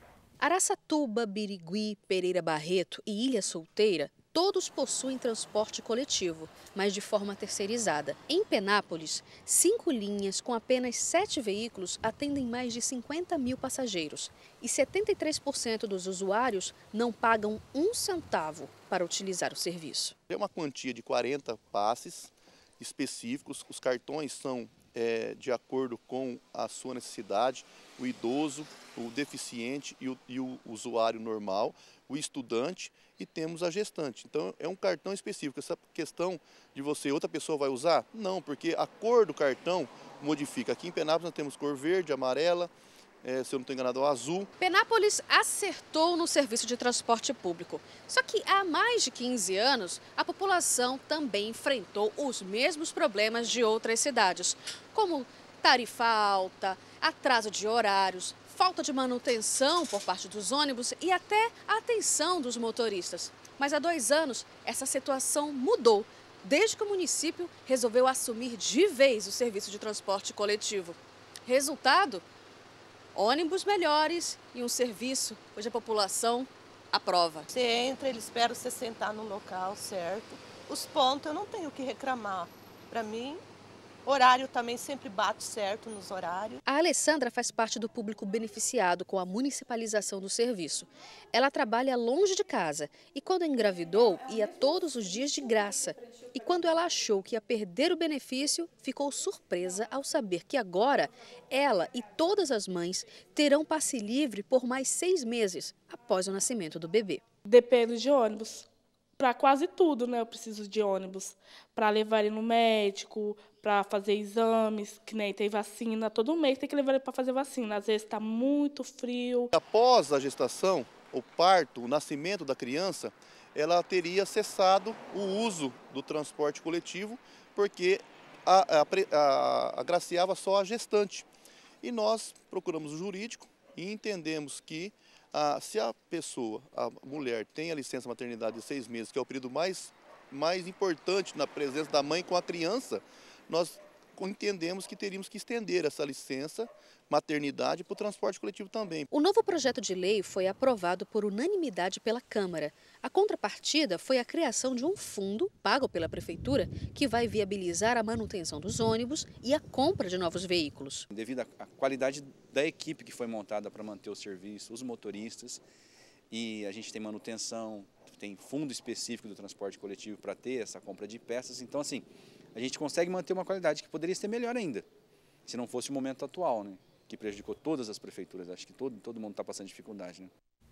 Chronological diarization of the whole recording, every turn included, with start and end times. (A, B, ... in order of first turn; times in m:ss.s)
0:00.4-0:20.2 A
0:20.3-0:42.7 B
0:43.2-0:44.5 B
0:44.6-1:12.2 A
1:13.2-1:17.5 A
1:17.5-1:23.4 C
1:24.1-1:26.6 C
1:26.7-1:47.2 A
1:47.5-1:48.7 D
1:49.2-1:59.5 D
1:59.5-2:11.3 B
2:11.8-2:29.1 B
2:29.1-2:41.1 A
2:41.1-2:45.6 E
2:46.3-2:54.9 E
2:55.5-3:00.3 E